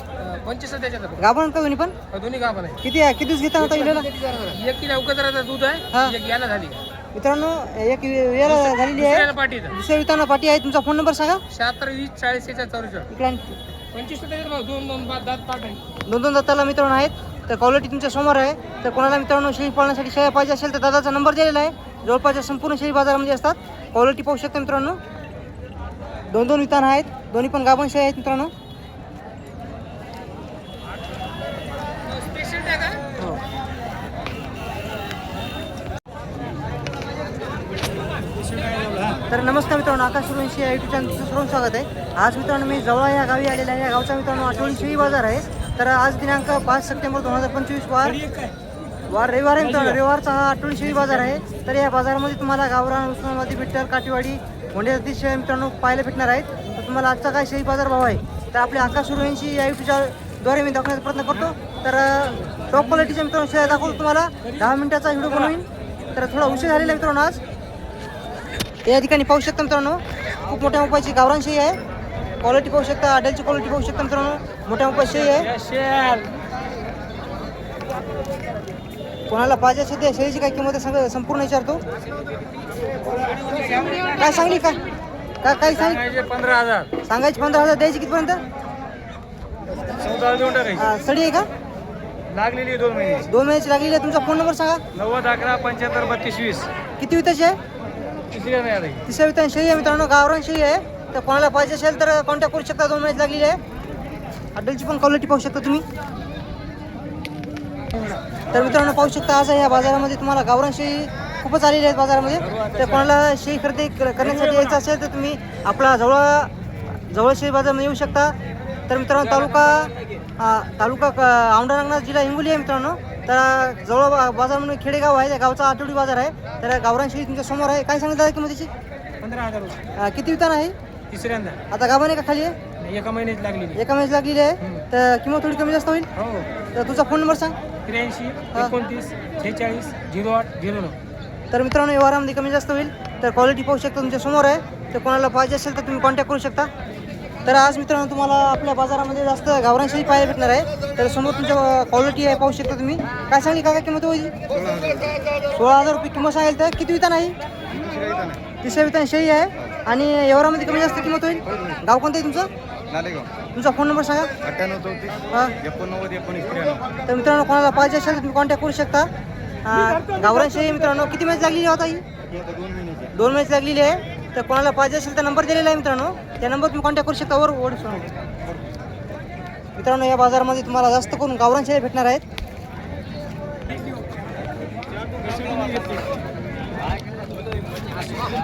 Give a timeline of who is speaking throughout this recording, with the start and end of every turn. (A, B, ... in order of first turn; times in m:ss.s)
0:00.2-0:01.2 A
0:01.2-0:02.0 B
0:02.1-0:02.8 A
0:02.8-0:04.1 B
0:04.1-0:06.8 A
0:05.9-0:06.2 B
0:07.1-0:11.4 B
0:08.4-0:09.8 A
0:11.5-0:13.1 A
0:13.1-0:13.6 B
0:13.9-0:15.8 A
0:16.1-0:25.0 B
0:26.3-0:28.5 B
0:32.2-0:33.0 A
0:38.6-0:39.2 A
0:39.3-0:48.2 B
0:48.1-0:48.5 A
0:49.1-1:07.4 B
1:08.8-1:11.8 B
1:12.4-1:15.5 B
1:15.3-1:16.3 A
1:19.3-1:21.8 B
1:23.4-1:24.2 A
1:24.2-1:24.8 B
1:25.4-1:26.0 B
1:25.7-1:26.9 A
1:27.0-1:28.4 B
1:30.0-1:30.8 A
1:30.7-1:31.5 B
1:32.3-1:33.3 A
1:33.2-1:34.8 B
1:34.9-1:36.7 A
1:37.0-1:37.6 B
1:38.3-1:39.0 A
1:39.0-1:43.6 B
1:44.5-1:45.8 B
1:48.5-1:58.3 B
1:58.9-2:08.7 B
2:09.2-2:09.8 A
2:10.0-2:10.7 B
2:11.1-2:11.6 A
2:11.7-2:12.6 B
2:12.8-2:13.8 A
2:13.8-2:16.1 B
2:16.2-2:16.5 A
2:16.7-2:17.6 B
2:17.8-2:21.0 A
2:21.5-2:26.7 B
2:27.4-2:34.3 B
2:34.5-2:35.2 C
2:35.5-2:37.4 B
2:37.7-2:38.4 C
2:38.6-2:42.5 B
2:42.9-2:43.3 C
2:43.5-2:44.3 B
2:44.4-2:46.8 C
2:45.3-2:45.5 B
2:47.0-2:49.1 B
2:49.6-2:52.0 B
2:52.6-2:52.9 C
2:53.1-2:58.2 B
2:59.8-3:02.2 B